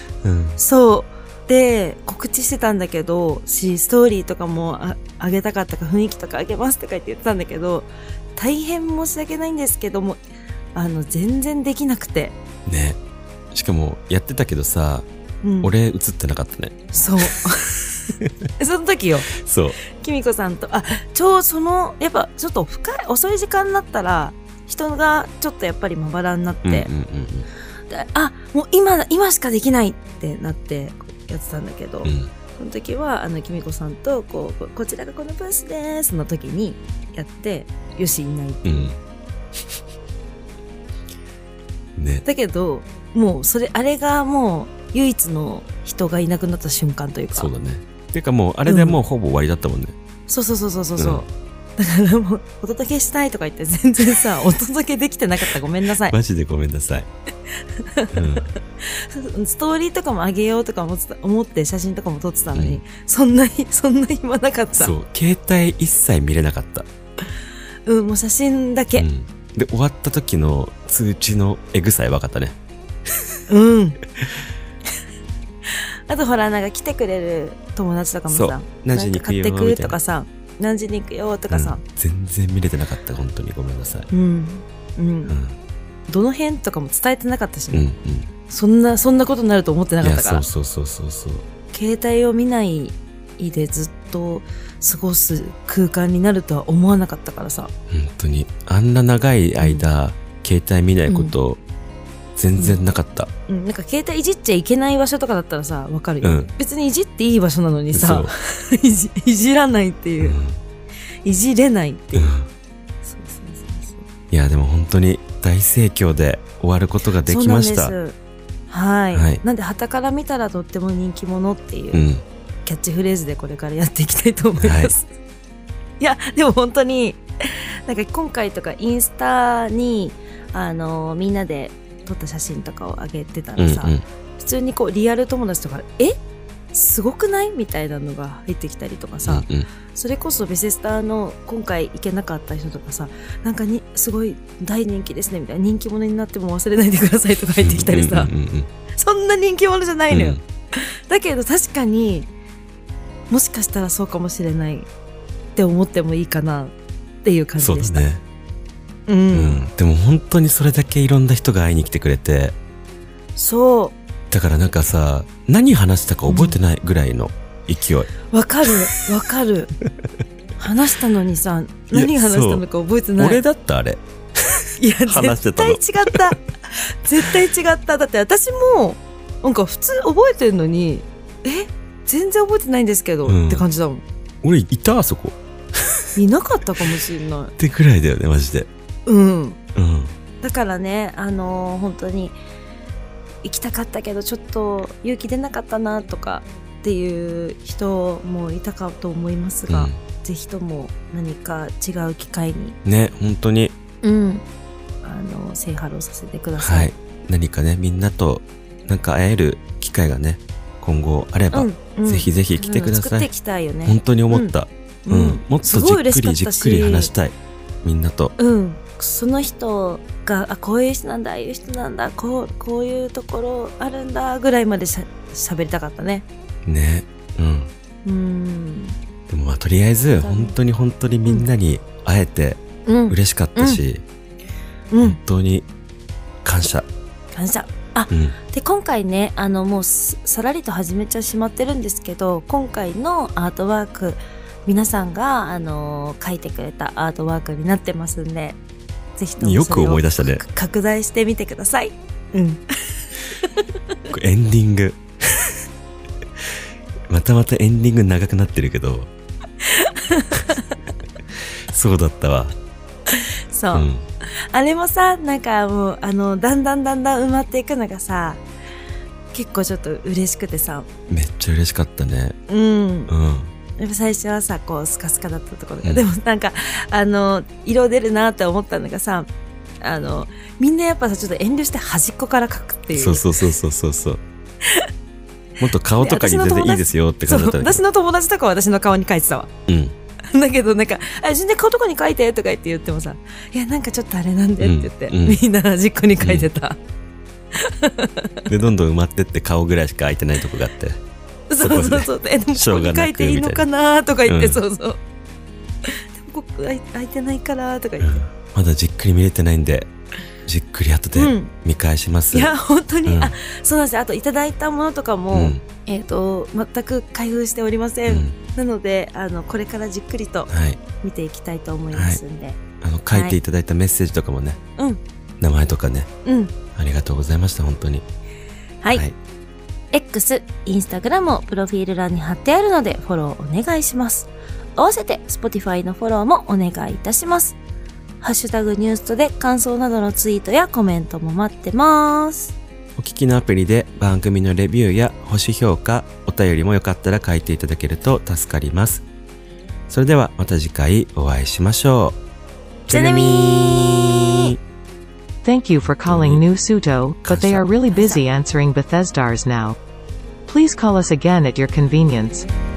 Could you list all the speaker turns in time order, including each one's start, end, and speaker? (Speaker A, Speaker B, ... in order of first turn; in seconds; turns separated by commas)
Speaker A: 0.2-0.6, Speaker B: 0.6-10.2, Speaker B: 10.7-12.3, Speaker A: 12.7-13.0, Speaker A: 13.5-15.1, Speaker B: 15.4-15.7, Speaker A: 15.6-17.3, Speaker B: 16.9-19.4, Speaker A: 19.3-19.8, Speaker B: 19.9-26.9, Speaker A: 26.6-27.5, Speaker B: 27.9-38.9, Speaker A: 32.0-32.3, Speaker A: 38.6-39.0, Speaker A: 42.0-42.2, Speaker B: 42.2-47.5, Speaker A: 47.3-49.9, Speaker B: 48.6-49.0, Speaker B: 50.3-56.1, Speaker A: 51.0-51.2, Speaker A: 56.0-57.1, Speaker B: 57.8-64.9, Speaker A: 58.1-58.5, Speaker A: 62.5-62.8, Speaker A: 64.8-66.9, Speaker B: 67.8-69.0, Speaker A: 69.0-72.6, Speaker B: 73.5-74.0, Speaker B: 75.7-81.8, Speaker A: 78.3-80.0, Speaker A: 81.5-84.1, Speaker B: 84.1-85.3, Speaker A: 85.3-85.6, Speaker B: 86.1-87.9, Speaker A: 87.7-88.3, Speaker B: 88.5-90.5, Speaker A: 90.0-91.4, Speaker B: 91.7-97.7, Speaker A: 97.9-101.6, Speaker B: 99.6-99.8, Speaker B: 101.1-101.3, Speaker A: 102.3-103.3, Speaker B: 102.6-102.8, Speaker B: 103.5-110.4, Speaker A: 106.2-106.5, Speaker A: 107.9-108.3, Speaker A: 110.2-110.6, Speaker B: 111.2-112.3, Speaker A: 112.1-112.5, Speaker B: 113.0-114.0, Speaker A: 114.3-118.0, Speaker B: 117.2-118.2, Speaker B: 118.7-122.1, Speaker A: 119.1-119.4, Speaker A: 121.9-122.2, Speaker B: 122.6-125.1, Speaker A: 124.6-124.9, Speaker B: 126.0-136.2, Speaker A: 133.6-134.0, Speaker B: 136.7-148.3, Speaker A: 139.2-139.7, Speaker A: 147.6-148.7, Speaker B: 148.9-152.3, Speaker A: 150.1-150.4, Speaker B: 153.3-154.9, Speaker B: 155.6-158.0, Speaker A: 157.6-158.2, Speaker B: 159.1-159.6, Speaker A: 159.3-162.6, Speaker B: 163.3-164.0, Speaker A: 164.3-168.1, Speaker B: 166.3-166.6, Speaker B: 168.3-169.7, Speaker B: 170.6-173.4, Speaker A: 171.9-172.6, Speaker A: 173.2-176.3, Speaker B: 174.8-184.0, Speaker A: 183.2-183.7, Speaker A: 184.4-186.1, Speaker B: 186.2-187.5, Speaker A: 187.6-188.7, Speaker B: 189.1-189.6, Speaker A: 189.7-190.1, Speaker B: 190.4-192.3, Speaker B: 193.4-202.8, Speaker A: 199.7-200.0, Speaker A: 202.8-203.8, Speaker B: 204.0-204.4, Speaker B: 205.0-206.9, Speaker A: 206.6-213.3, Speaker B: 211.5-214.5, Speaker A: 213.8-218.3, Speaker B: 215.1-217.1, Speaker B: 218.4-226.2, Speaker A: 226.6-227.7, Speaker B: 228.0-229.0, Speaker A: 229.3-234.0, Speaker B: 230.2-230.6, Speaker B: 232.8-233.8, Speaker B: 234.9-235.2, Speaker A: 235.0-235.7, Speaker A: 236.4-236.9, Speaker B: 237.3-248.6, Speaker A: 238.1-238.4, Speaker B: 249.2-253.7, Speaker A: 249.4-250.4, Speaker A: 254.1-255.5, Speaker A: 257.1-259.1, Speaker B: 259.6-260.8, Speaker A: 261.7-262.6, Speaker B: 263.1-268.4, Speaker A: 263.7-264.1, Speaker B: 269.3-270.9, Speaker A: 271.1-272.4, Speaker B: 272.5-273.1, Speaker A: 273.1-273.5, Speaker B: 273.8-283.4, Speaker A: 282.9-284.2, Speaker A: 285.6-287.8, Speaker B: 286.0-289.5, Speaker A: 289.7-289.9, Speaker B: 290.3-296.8, Speaker A: 294.6-295.4, Speaker A: 296.2-296.5, Speaker B: 297.5-298.5, Speaker A: 298.5-301.0, Speaker B: 301.5-305.0, Speaker A: 301.6-303.7, Speaker A: 304.3-304.6, Speaker B: 305.8-308.2, Speaker A: 308.0-309.9, Speaker A: 310.4-313.4, Speaker B: 311.1-311.5, Speaker B: 312.3-320.5, Speaker A: 315.3-315.6, Speaker A: 318.1-318.4, Speaker A: 320.5-320.8, Speaker B: 321.0-322.6, Speaker A: 321.9-322.2, Speaker A: 322.8-324.6, Speaker B: 323.1-323.4, Speaker A: 325.4-326.1, Speaker B: 326.2-326.5, Speaker A: 326.7-328.0, Speaker A: 328.9-329.1, Speaker B: 329.9-337.6, Speaker B: 338.2-342.5, Speaker A: 343.0-349.0, Speaker A: 349.9-352.2, Speaker A: 352.9-354.5, Speaker B: 352.9-354.5, Speaker C: 355.4-359.8, Speaker A: 355.9-356.4, Speaker A: 357.2-357.7, Speaker B: 357.9-358.2, Speaker C: 360.4-362.5